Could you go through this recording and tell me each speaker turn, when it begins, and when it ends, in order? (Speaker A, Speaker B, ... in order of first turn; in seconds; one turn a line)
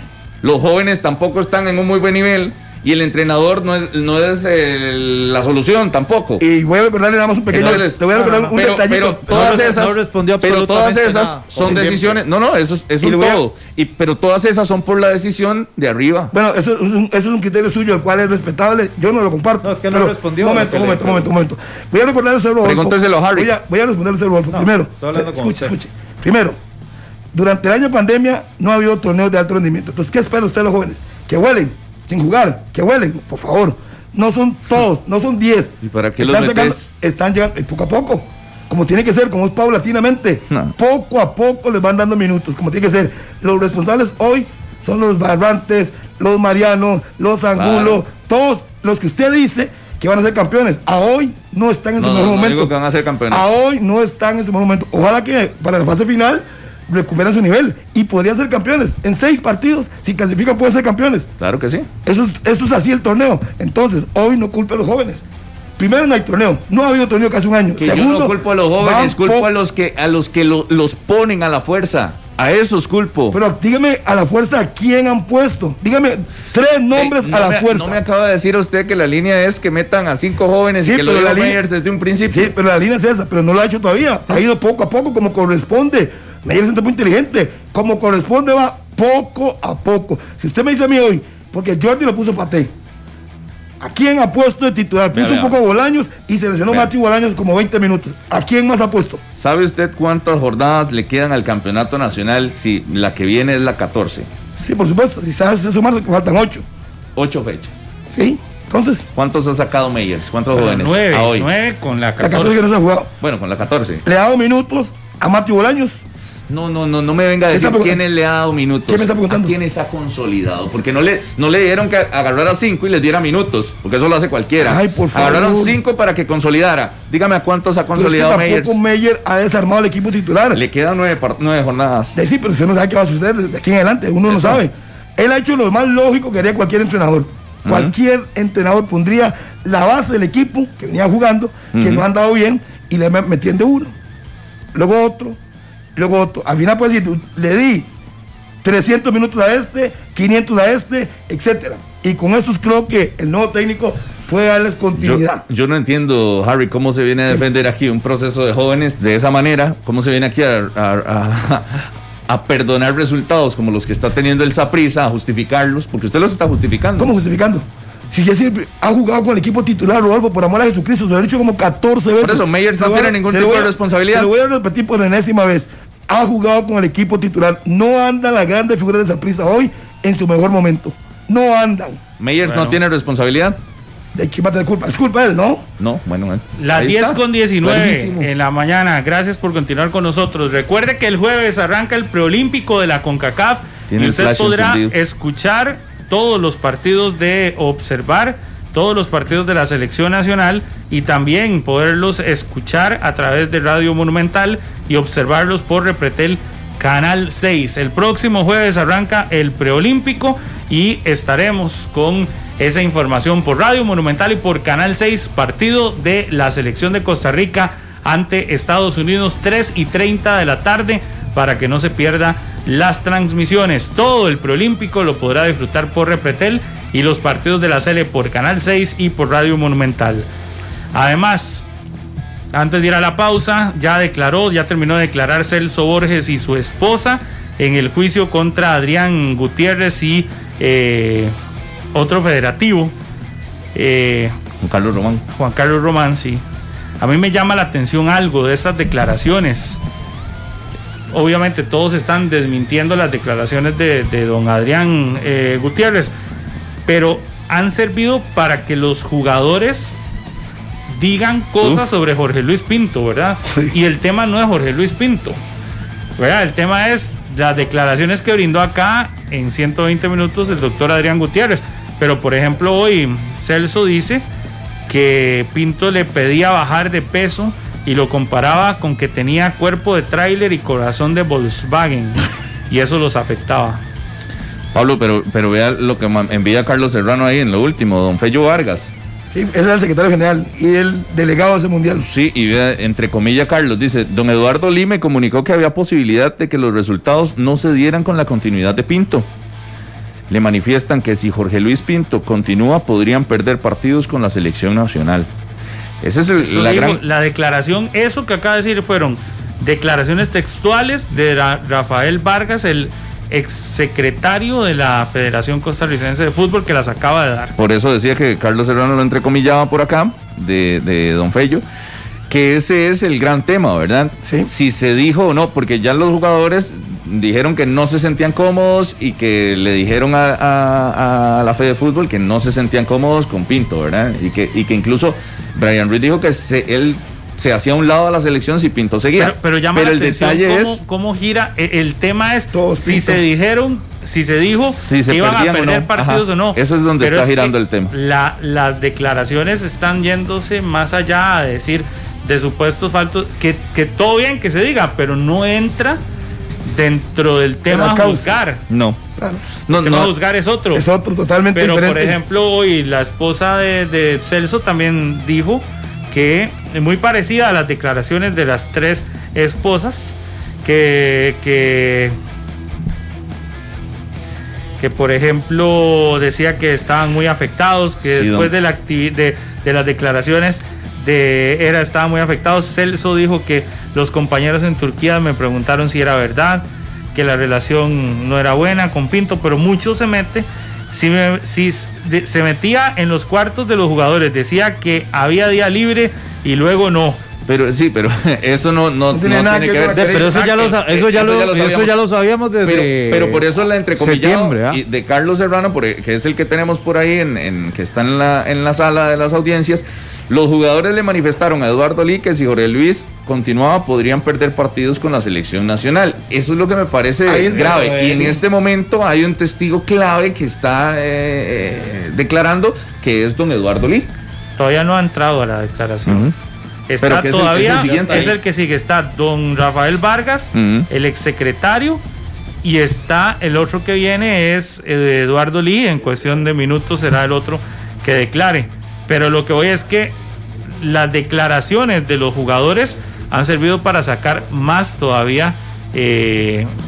Speaker A: 0.4-6.4
Speaker B: 6.4-9.7
Speaker A: 7.5-16.3
Speaker C: 8.2-8.5
Speaker C: 9.3-12.2
Speaker B: 11.6-11.9
Speaker B: 13.0-13.4
Speaker B: 16.3-26.6
Speaker C: 19.6-21.3
Speaker A: 22.6-23.5
Speaker C: 24.5-25.7
Speaker B: 27.3-52.7
Speaker A: 35.8-36.8
Speaker A: 47.6-48.0
Speaker A: 52.0-53.5
Speaker B: 53.3-61.3
Speaker A: 61.4-61.9
Speaker B: 62.0-65.2
Speaker B: 65.8-69.5
Speaker A: 67.8-73.4
Speaker B: 73.3-78.0
Speaker A: 76.9-82.5
Speaker B: 80.8-81.6
Speaker B: 82.3-92.7
Speaker B: 93.8-99.2
Speaker A: 95.1-95.6
Speaker A: 99.3-104.3
Speaker B: 104.6-106.7
Speaker A: 107.2-107.9
Speaker B: 108.1-109.0
Speaker A: 109.2-111.5
Speaker D: 110.5-112.6
Speaker B: 112.2-113.1
Speaker A: 113.2-114.0
Speaker B: 114.0-116.0
Speaker A: 116.5-128.8
Speaker B: 117.5-118.0
Speaker B: 118.9-119.5
Speaker B: 124.6-125.8
Speaker B: 128.0-130.6
Speaker A: 130.5-132.2
Speaker B: 132.2-143.9
Speaker A: 134.3-134.6
Speaker A: 137.7-137.9
Speaker A: 141.7-142.0
Speaker B: 144.7-145.4
Speaker B: 145.9-147.9
Speaker B: 148.6-155.4
Speaker A: 155.0-167.2
Speaker B: 167.0-182.0
Speaker A: 172.2-174.3
Speaker A: 182.2-183.6
Speaker D: 182.4-182.8
Speaker B: 184.2-185.7
Speaker A: 185.8-188.3
Speaker D: 186.6-230.3
Speaker A: 193.9-194.9
Speaker D: 230.9-231.7
Speaker D: 232.5-241.3
Speaker D: 241.9-242.9
Speaker D: 243.7-244.3
Speaker A: 244.6-245.2
Speaker D: 245.3-246.4
Speaker D: 247.0-249.8
Speaker D: 251.1-256.1
Speaker D: 256.9-260.0
Speaker D: 260.9-265.4
Speaker D: 266.2-274.2
Speaker D: 274.9-283.8
Speaker A: 284.7-288.9
Speaker B: 289.3-292.1
Speaker A: 292.0-299.3
Speaker A: 300.3-305.3
Speaker A: 306.0-307.0
Speaker D: 306.4-317.5
Speaker A: 317.6-321.6
Speaker A: 322.3-340.8
Speaker B: 324.2-324.5
Speaker D: 339.2-356.0
Speaker B: 342.5-343.2
Speaker A: 344.4-347.9
Speaker D: 356.6-358.6
Speaker B: 357.7-358.3
Speaker A: 358.7-359.0
Speaker B: 359.2-359.4
Speaker A: 359.7-360.1
Speaker D: 359.7-360.9
Speaker B: 360.7-362.2
Speaker D: 361.6-372.1
Speaker D: 374.8-397.2
Speaker A: 378.1-378.5
Speaker A: 397.5-401.9
Speaker B: 399.1-400.4
Speaker C: 399.9-403.4
Speaker A: 402.6-424.1
Speaker C: 404.0-404.8
Speaker B: 417.2-418.4
Speaker C: 417.7-418.2
Speaker D: 424.6-426.3
Speaker A: 426.1-426.3
Speaker D: 426.9-432.0
Speaker A: 427.0-428.4
Speaker C: 427.8-428.3
Speaker A: 430.5-430.9
Speaker D: 432.6-440.1
Speaker D: 440.7-446.7